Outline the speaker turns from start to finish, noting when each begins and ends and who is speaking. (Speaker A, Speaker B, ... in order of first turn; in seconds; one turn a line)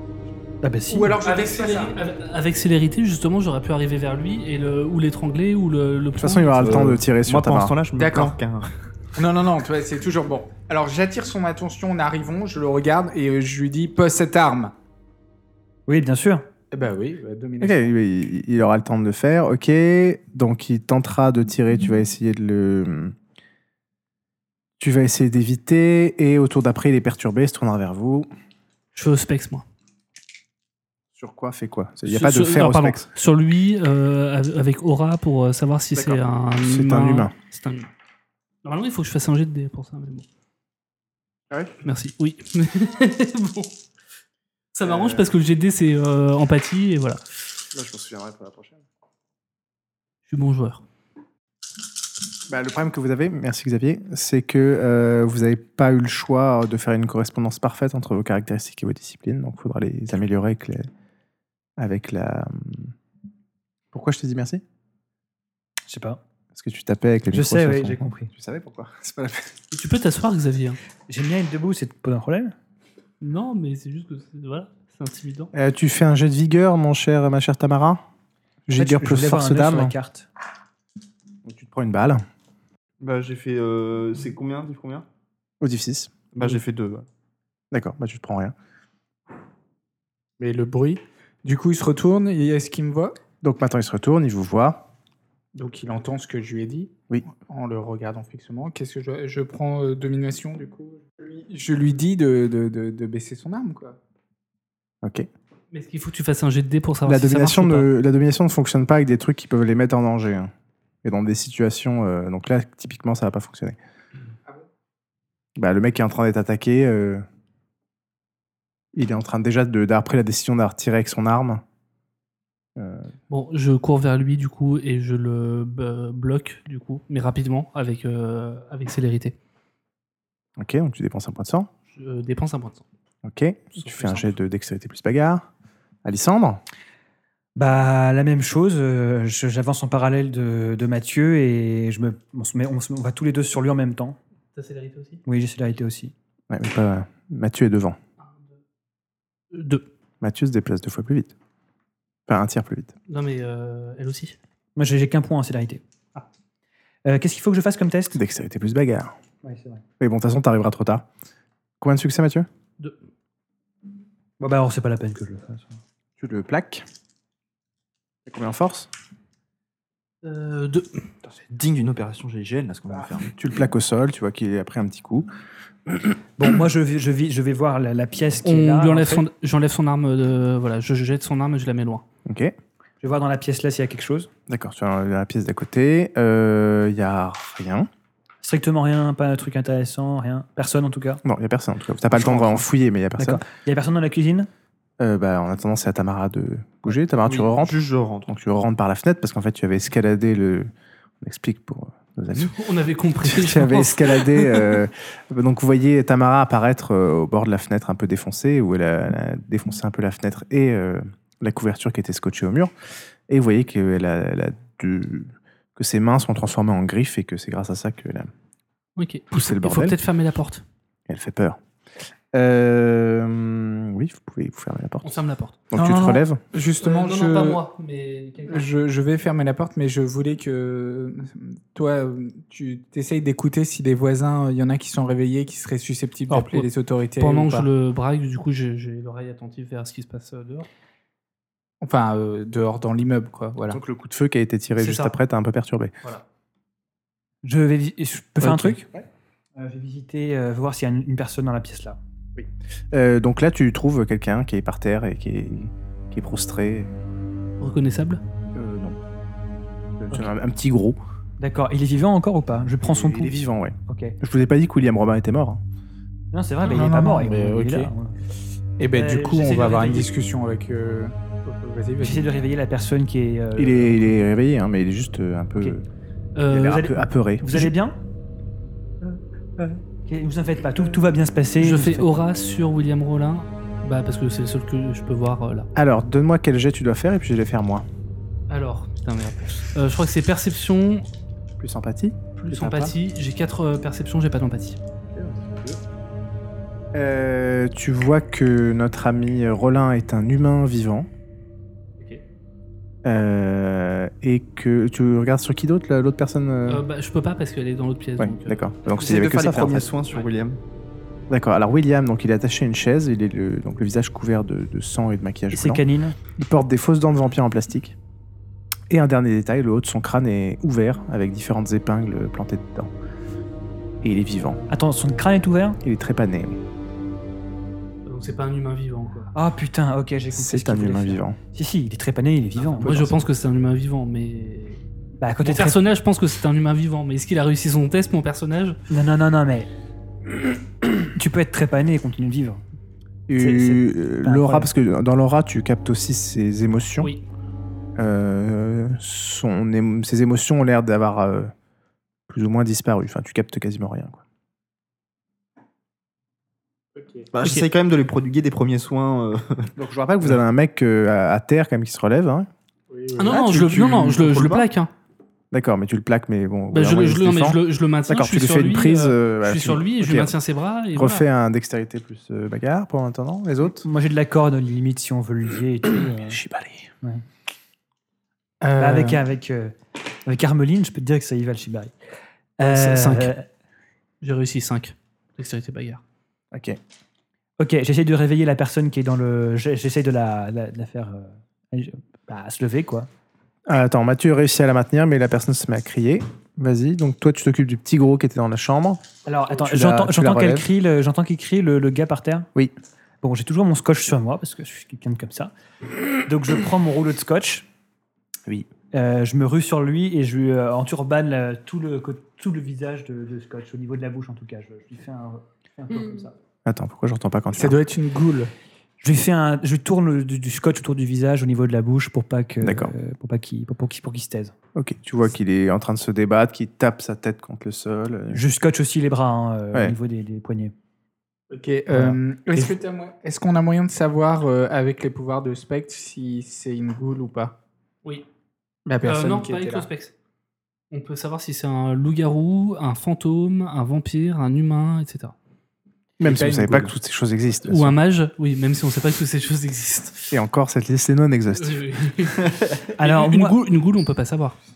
Speaker A: 0.6-1.2
Speaker B: 0.9-1.9
Speaker C: 1.2-6.9
Speaker D: 6.2-7.7
Speaker E: 6.7-8.7
Speaker B: 8.0-8.4
Speaker B: 9.2-14.7
Speaker A: 15.9-16.4
Speaker B: 16.7-17.9
Speaker D: 17.6-23.1
Speaker D: 24.8-28.3
Speaker C: 28.9-29.6
Speaker D: 31.1-33.1
Speaker C: 32.1-37.9
Speaker D: 35.9-37.3
Speaker C: 38.6-40.2
Speaker C: 41.8-43.7
Speaker C: 44.7-47.2
Speaker D: 44.9-45.3
Speaker D: 47.7-48.8
Speaker C: 50.3-50.8
Speaker D: 52.5-60.9
Speaker D: 61.8-62.9
Speaker D: 63.9-64.6
Speaker A: 65.9-66.2
Speaker D: 66.5-69.5
Speaker A: 67.3-68.3
Speaker C: 69.7-70.8
Speaker A: 71.1-72.5
Speaker C: 73.2-75.5
Speaker D: 75.5-78.0
Speaker D: 78.7-79.9
Speaker A: 78.7-80.3
Speaker D: 81.4-82.2
Speaker E: 83.0-85.1
Speaker D: 85.6-86.1
Speaker E: 86.3-87.0
Speaker D: 87.7-88.5
Speaker B: 90.4-93.2
Speaker D: 93.4-94.9
Speaker B: 95.5-104.0
Speaker C: 105.7-107.9
Speaker D: 107.1-110.5
Speaker D: 111.0-113.8
Speaker D: 115.6-117.2
Speaker D: 118.9-121.6
Speaker D: 122.8-123.1
Speaker C: 123.3-129.3
Speaker D: 130.6-131.7
Speaker C: 131.9-132.8
Speaker D: 133.2-135.4
Speaker C: 133.8-134.4
Speaker D: 136.1-136.6
Speaker A: 137.6-144.2
Speaker C: 144.6-145.2
Speaker A: 145.2-146.1
Speaker D: 146.5-148.0
Speaker C: 149.5-149.9
Speaker D: 150.2-151.3
Speaker D: 152.3-152.9
Speaker C: 153.1-154.4
Speaker A: 154.8-155.8
Speaker A: 157.1-158.2
Speaker D: 158.1-159.2
Speaker A: 159.4-159.8
Speaker D: 160.0-161.1
Speaker D: 161.8-162.5
Speaker A: 164.4-165.8
Speaker D: 166.2-166.8
Speaker D: 168.2-168.9
Speaker C: 170.2-171.0
Speaker E: 171.2-173.3
Speaker D: 173.3-175.3
Speaker A: 176.4-179.2
Speaker C: 178.4-182.1
Speaker D: 182.2-182.6
Speaker A: 183.0-184.3
Speaker D: 184.5-187.9
Speaker A: 188.4-191.2
Speaker D: 191.2-193.4
Speaker A: 192.1-192.6
Speaker A: 193.2-194.5
Speaker D: 195.0-197.7
Speaker E: 197.3-198.3
Speaker D: 198.3-200.7
Speaker D: 201.2-202.5
Speaker C: 202.4-204.8
Speaker D: 203.2-212.7
Speaker D: 213.3-218.3
Speaker C: 219.0-220.6
Speaker D: 219.3-219.9
Speaker D: 221.1-221.6
Speaker D: 222.3-226.4
Speaker C: 225.0-225.6
Speaker B: 225.7-227.6
Speaker C: 226.8-228.7
Speaker B: 228.5-237.7
Speaker C: 236.3-240.7
Speaker B: 241.8-243.8
Speaker D: 243.7-245.9
Speaker A: 244.8-245.1
Speaker A: 247.4-248.9
Speaker D: 248.4-249.0
Speaker A: 249.6-252.0
Speaker D: 252.4-256.9
Speaker C: 257.6-258.2
Speaker D: 258.6-259.0
Speaker D: 260.0-261.0
Speaker A: 261.4-264.1
Speaker D: 262.8-265.6
Speaker A: 266.3-268.2
Speaker B: 266.6-267.9
Speaker B: 268.8-272.3
Speaker A: 268.9-270.1
Speaker A: 272.0-274.2
Speaker D: 273.6-275.9
Speaker C: 276.4-276.9
Speaker D: 276.5-277.7
Speaker A: 276.6-277.9
Speaker A: 280.1-282.1
Speaker C: 281.6-285.7
Speaker D: 285.7-287.9
Speaker C: 288.5-291.1
Speaker D: 291.6-292.9
Speaker C: 292.4-294.8
Speaker D: 295.1-295.8
Speaker D: 296.9-301.1
Speaker D: 303.1-306.8
Speaker C: 306.7-308.7
Speaker D: 308.2-309.9
Speaker E: 309.0-310.6
Speaker A: 309.1-309.9
Speaker D: 311.3-315.8
Speaker A: 315.5-316.2
Speaker D: 316.4-317.9
Speaker D: 318.9-322.9
Speaker D: 324.0-324.6
Speaker A: 324.7-325.8
Speaker D: 325.8-326.6
Speaker C: 328.1-329.3
Speaker A: 329.3-333.2
Speaker D: 330.3-331.4
Speaker C: 332.7-334.8
Speaker A: 335.2-335.8
Speaker C: 335.4-338.8
Speaker A: 338.9-339.7
Speaker A: 341.1-342.6
Speaker D: 343.3-347.1
Speaker A: 343.4-344.7
Speaker D: 348.0-351.5
Speaker D: 352.3-354.2
Speaker B: 356.9-357.3
Speaker E: 357.3-359.7
Speaker D: 359.8-362.5
Speaker B: 362.9-363.4
Speaker C: 363.2-364.9
Speaker E: 363.3-364.7
Speaker D: 365.5-370.4
Speaker C: 366.7-371.2
Speaker D: 370.9-373.9
Speaker A: 373.6-376.4
Speaker D: 376.2-376.9
Speaker B: 378.6-379.2
Speaker A: 378.8-381.9
Speaker A: 382.6-383.4
Speaker C: 382.6-383.4
Speaker C: 384.2-386.0
Speaker D: 386.5-386.8
Speaker A: 387.6-393.1
Speaker D: 393.7-399.0
Speaker A: 399.2-402.5
Speaker D: 399.6-400.7
Speaker A: 403.2-405.5
Speaker A: 406.2-407.7
Speaker A: 408.9-416.4
Speaker D: 416.6-417.8
Speaker B: 417.6-418.5
Speaker A: 419.0-424.5
Speaker D: 422.6-422.9
Speaker D: 424.7-428.4
Speaker A: 428.3-430.7
Speaker B: 431.5-437.6
Speaker A: 431.9-432.7
Speaker B: 438.9-439.9
Speaker C: 439.0-440.1
Speaker C: 440.9-445.4
Speaker D: 446.2-448.0
Speaker B: 446.2-446.9
Speaker C: 447.7-450.4
Speaker D: 450.3-451.9
Speaker C: 451.6-454.6
Speaker A: 453.0-453.6